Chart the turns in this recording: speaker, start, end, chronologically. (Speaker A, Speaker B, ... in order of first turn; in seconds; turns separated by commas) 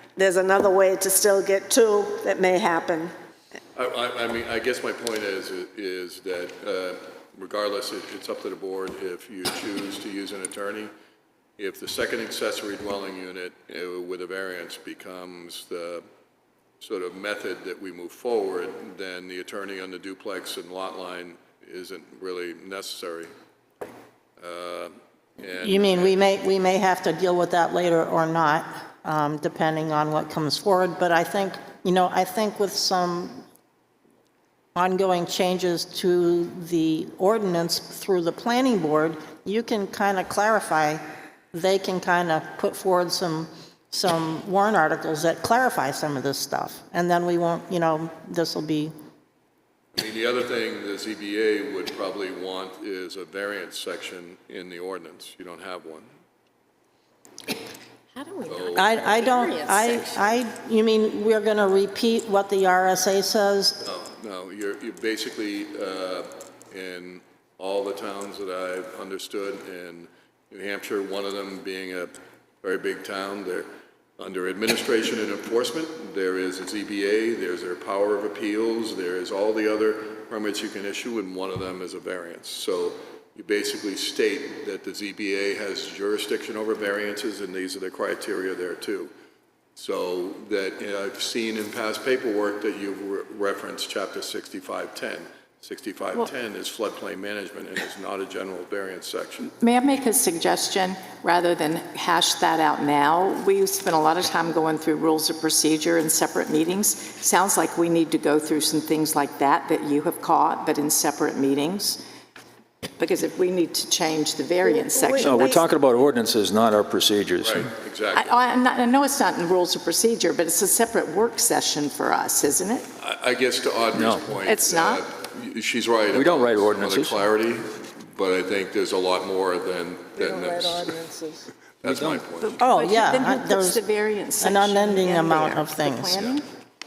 Speaker A: 0.2-3.1, Speaker B: 3.8-10.9, Speaker B: 11.6-16.1, Speaker B: 16.8-23.3, Speaker B: 24.4-26.2, Speaker C: 25.6-33.4, Speaker C: 34.8-41.0, Speaker C: 41.5-48.9, Speaker B: 49.9-56.1, Speaker D: 58.1-60.4, Speaker B: 58.5-59.0, Speaker C: 58.8-63.8, Speaker B: 63.8-89.1, Speaker B: 89.8-99.5, Speaker D: 99.6-112.0, Speaker D: 113.0-115.6, Speaker A: 114.6-115.7, Speaker E: 115.2-117.7, Speaker B: 117.4-118.3, Speaker D: 118.1-122.9, Speaker B: 123.0-130.9, Speaker E: 123.9-124.3, Speaker D: 124.4-125.0, Speaker E: 126.1-127.2, Speaker A: 130.2-131.5, Speaker B: 131.8-132.6, Speaker E: 131.8-132.2, Speaker D: 132.4-136.4, Speaker C: 132.6-133.8, Speaker C: 134.4-136.4